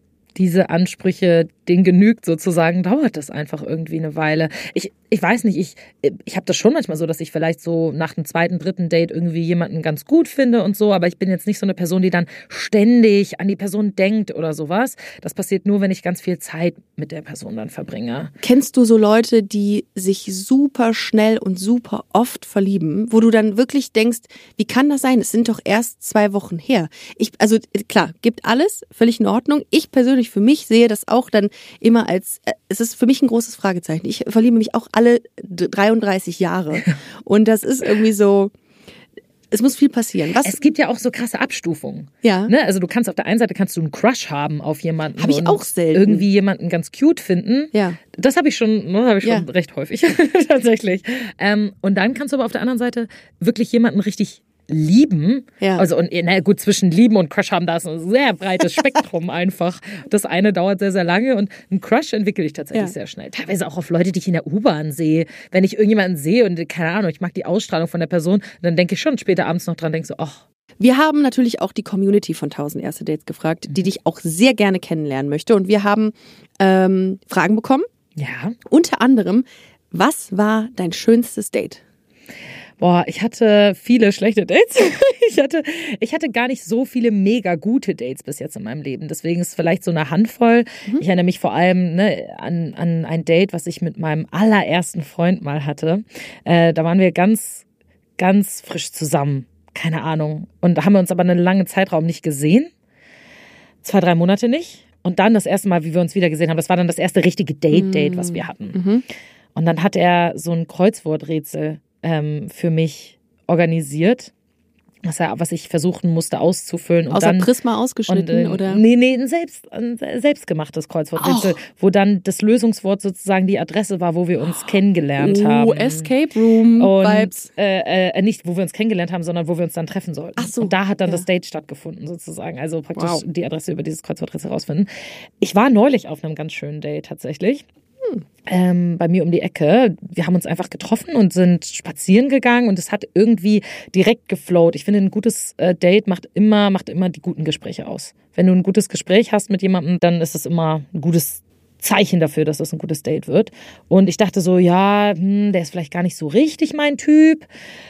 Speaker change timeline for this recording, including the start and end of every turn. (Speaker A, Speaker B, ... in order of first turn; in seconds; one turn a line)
Speaker A: 0.3-18.3
Speaker B: 18.4-38.5
Speaker B: 39.5-40.6
Speaker A: 40.4-70.4
Speaker B: 42.2-42.5
Speaker B: 45.2-46.2
Speaker B: 47.7-48.0
Speaker B: 55.6-55.9
Speaker B: 70.8-77.9
Speaker A: 78.2-78.5
Speaker B: 78.7-81.8
Speaker A: 82.8-97.6
Speaker A: 98.2-102.7
Speaker A: 103.8-108.8
Speaker B: 107.7-109.0
Speaker A: 109.5-114.3
Speaker A: 115.0-117.5
Speaker B: 117.1-118.8
Speaker A: 118.1-126.1
Speaker B: 121.2-121.6
Speaker B: 124.5-127.5
Speaker A: 126.8-134.9
Speaker B: 130.4-131.2
Speaker B: 132.9-133.2
Speaker A: 135.4-137.6
Speaker A: 138.5-157.5